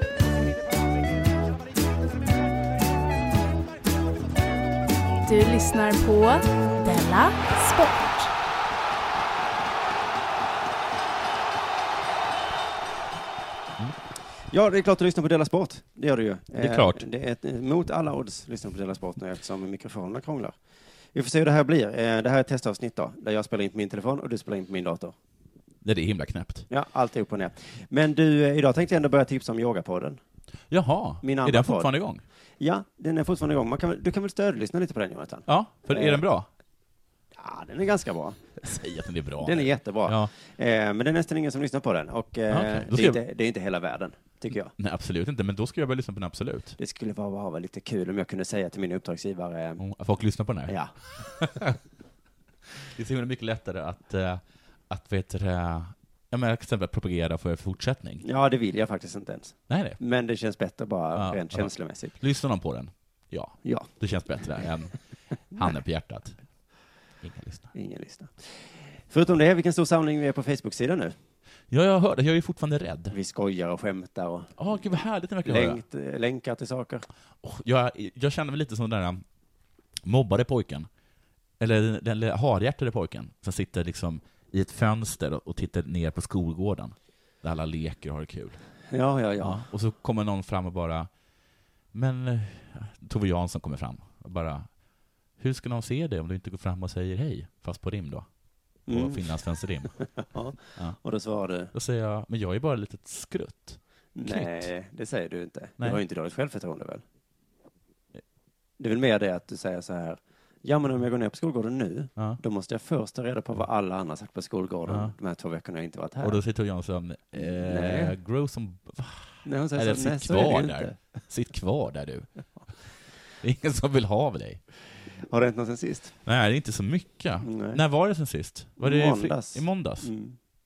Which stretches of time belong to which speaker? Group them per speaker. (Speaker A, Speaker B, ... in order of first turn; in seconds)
Speaker A: 5.2-8.3
Speaker B: 14.5-20.6, 21.1-25.1, 26.7-30.2, 31.2-31.9, 32.6-36.2, 37.4-38.7, 39.4-44.7, 46.8-49.8, 50.7-50.9, 58.2-62.2, 63.6-64.7, 67.7-71.2, 73.1-74.6, 75.5-77.1, 88.9-89.7, 98.9-101.7, 104.2-107.0, 108.8-116.4, 117.4-118.2, 119.4-121.2, 125.3-126.2, 127.4-127.8, 128.8-130.4
Speaker C: 16.6-17.1, 25.8-26.7, 30.7-32.2, 35.5-36.5, 38.6-40.3, 42.5-43.2, 44.8-46.8, 49.8-51.8, 52.8-58.2, 59.7-60.0, 61.2-64.9, 65.5-66.4, 67.2-67.7, 71.7-73.2, 74.6-75.8, 77.4-79.2, 80.0-80.9, 81.6-88.6, 89.4-91.1, 91.9-94.7, 95.4-98.3, 98.9-100.0, 101.7-104.7, 114.9-115.2, 116.2-122.3, 123.4-124.6, 126.2-130.1